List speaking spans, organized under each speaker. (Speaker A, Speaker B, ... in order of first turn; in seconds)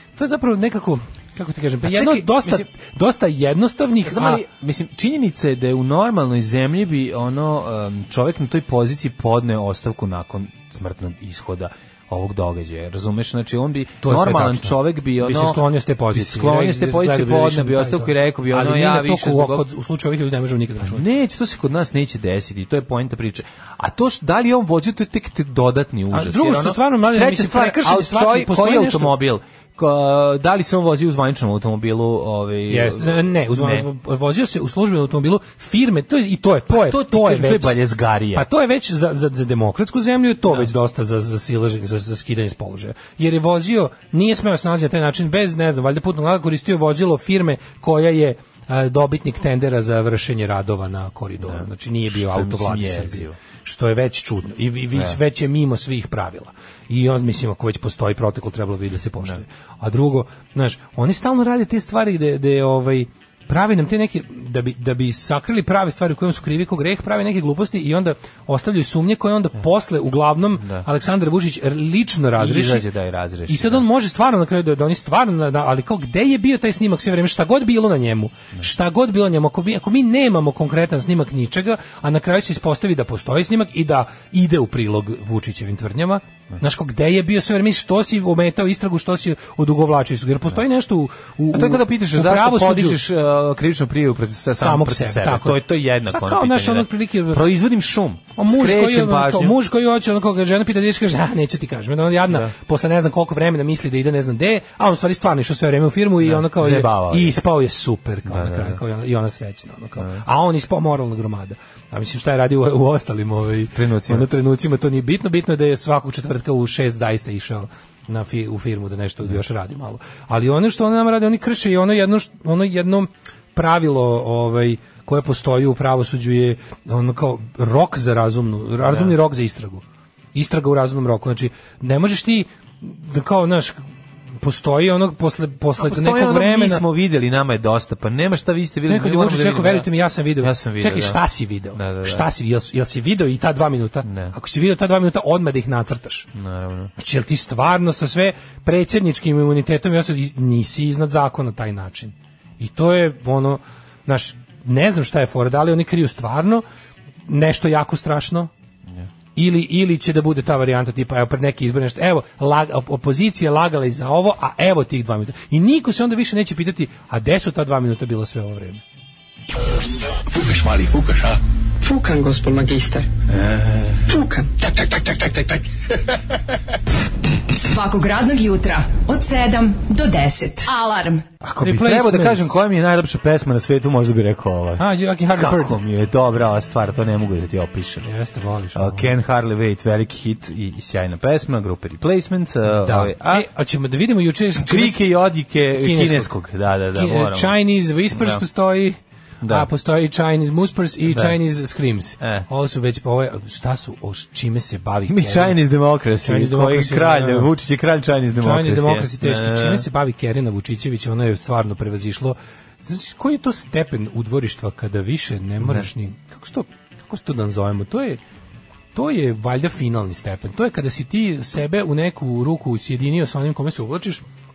Speaker A: 0.2-4.4, 14.0-21.1, 26.1-29.1, 32.7-37.8, 38.3-72.9, 73.5-93.0, 94.6-97.5, 98.4-129.8, 130.3-133.8, 134.4-136.8, 138.9-146.3, 147.0-156.6, 157.3-158.5, 159.4-168.8, 181.6-182.6, 184.8-185.8, 188.0-189.1, 192.7-195.1, 195.7-196.3, 196.9-205.6, 206.2-207.5, 208.4-218.2, 218.9-224.2
Speaker B: 1.8-2.7, 4.0-19.6, 20.8-33.9, 36.7-38.5, 51.4-53.4, 70.6-70.9, 72.4-73.8, 91.5-99.6, 102.3-102.5, 106.2-107.4, 108.3-108.8, 110.0-110.2, 113.7-114.3, 128.8-129.1, 135.8-141.2, 141.7-142.3, 144.1-144.3, 146.3-146.9, 181.4-188.1, 188.8-193.5, 194.6-197.6, 198.1-198.4, 199.4-199.7, 201.1-201.4, 202.2-202.5, 205.1-209.9, 215.6-215.9
Speaker C: 170.3-173.1, 173.9-175.6
Speaker D: 177.5-181.3